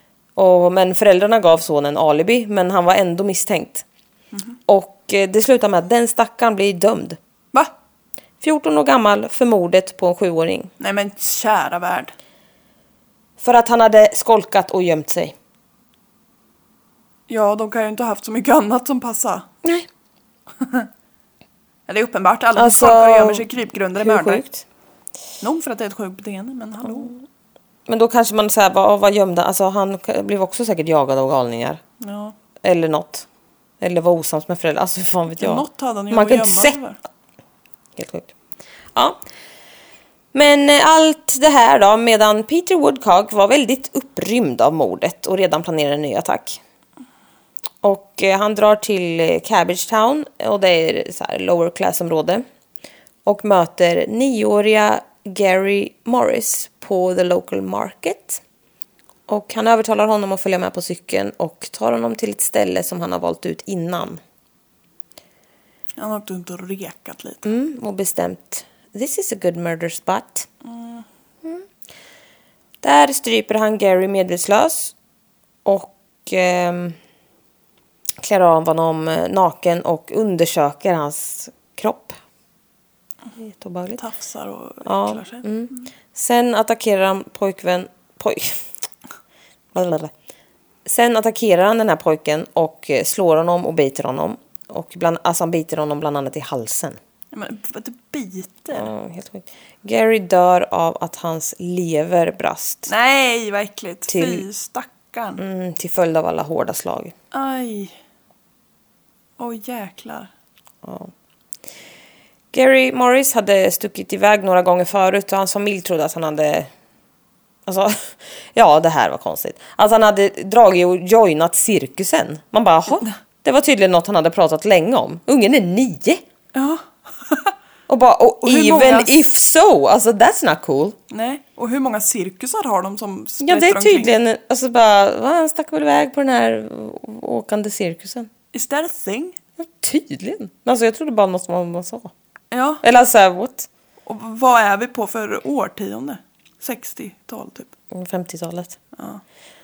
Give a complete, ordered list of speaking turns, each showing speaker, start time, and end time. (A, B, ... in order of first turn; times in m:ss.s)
0:00.4-0:03.8 A
0:04.7-0:07.2 A
0:08.4-0:10.7 A
0:10.8-0:12.1 B
0:13.4-0:15.3 A
0:17.3-0:19.5 B
0:20.6-0:20.9 B
0:21.9-0:24.4 B
0:22.5-0:24.6 A
0:25.4-0:27.1 B
0:27.9-0:31.8 A
0:32.0-0:32.3 B
0:32.6-0:33.3 A
0:33.8-0:36.8 A
0:35.4-0:37.0 B
0:38.0-0:38.3 A
0:40.3-0:46.6 A
0:47.8-0:52.4 A
0:53.2-0:58.4 A
0:59.3-1:04.2 A
1:06.0-1:07.4 B
1:07.4-1:10.5 A
1:10.6-1:11.0 B
1:12.8-1:14.9 A
1:15.6-1:17.0 A
1:18.2-1:22.2 A
1:23.4-1:24.0 A
1:24.0-1:25.4 B
1:24.8-1:28.6 A
1:29.7-1:30.1 A
1:30.8-1:37.0 A
1:37.3-1:38.9 B
1:38.7-1:42.9 A
1:42.9-1:45.4 B
1:44.1-1:44.4 A
1:45.4-1:47.1 A
1:47.3-1:47.9 B
1:49.4-1:50.3 B
1:50.8-1:51.1 A
1:52.5-1:56.7 A
1:57.6-2:06.2 A
2:06.5-2:07.5 B
2:07.9-2:11.0 A
2:08.4-2:09.2 B
2:11.1-2:14.1 B
2:13.4-2:18.3 A
2:18.5-2:19.4 B
2:19.6-2:22.1 A
2:22.5-2:22.8 B
2:22.8-2:23.7 A
2:24.0-2:27.7 B
2:27.9-2:28.8 A
2:28.9-2:29.2 B